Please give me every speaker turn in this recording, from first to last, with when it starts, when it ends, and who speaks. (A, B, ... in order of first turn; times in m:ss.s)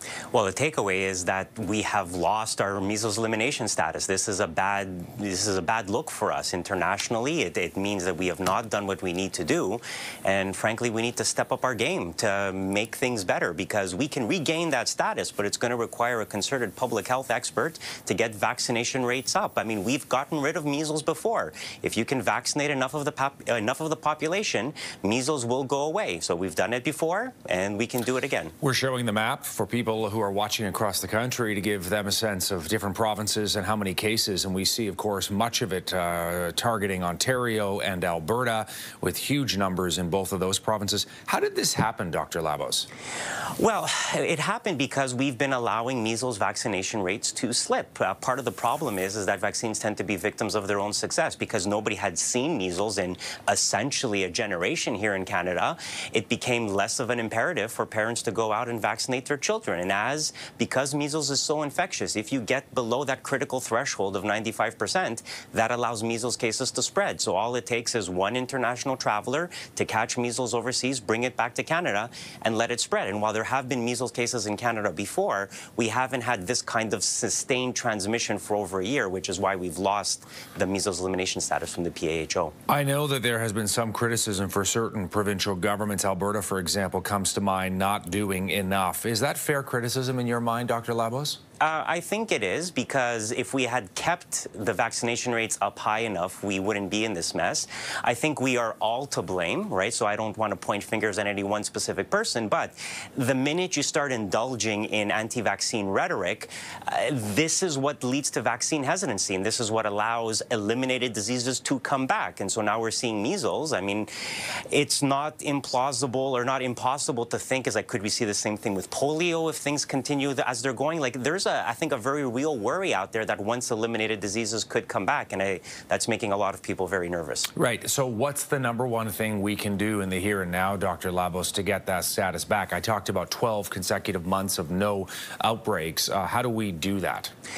0:00.3-0:28.5 A
0:28.6-0:42.9 B
0:43.6-1:22.5 A
1:22.7-1:31.4 B
1:31.6-2:07.5 A
2:07.6-2:17.3 B